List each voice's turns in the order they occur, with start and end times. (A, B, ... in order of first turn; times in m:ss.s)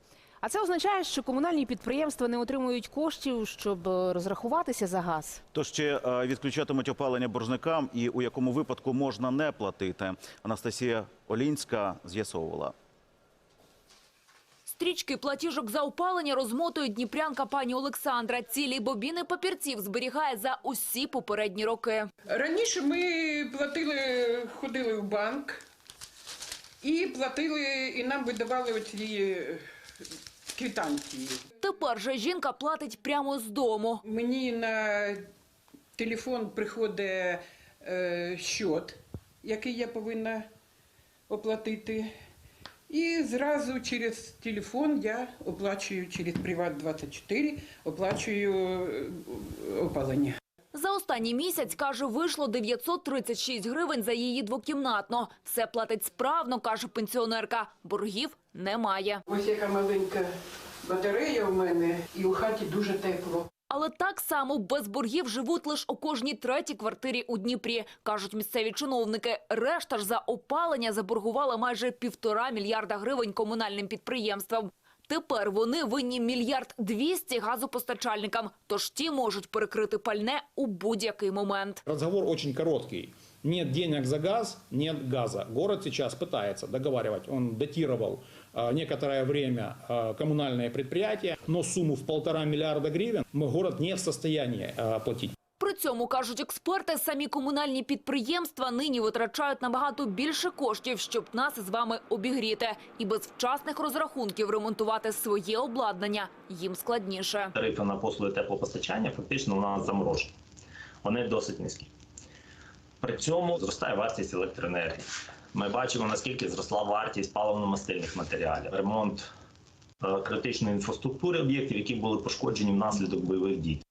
0:00.4-0:05.4 A
0:05.5-0:12.7 B
0:14.7-0:22.1 C
0:22.3-0:25.6 D
0:26.8-0:29.6 D
0:30.5-0:31.4 D
0:31.6-0:34.0 C
0:34.1-0:35.2 D
0:36.0-0:40.5 D
0:41.3-0:42.1 D
0:42.9-0:50.4 D
0:50.7-0:59.2 C
0:59.3-1:03.5 D
1:03.7-1:21.8 C
1:21.9-1:35.4 E
1:35.6-1:47.6 C
1:47.6-1:50.3 F
1:51.0-1:51.9 F
1:53.0-1:55.0 F
1:55.5-1:59.3 F
2:00.0-2:03.8 F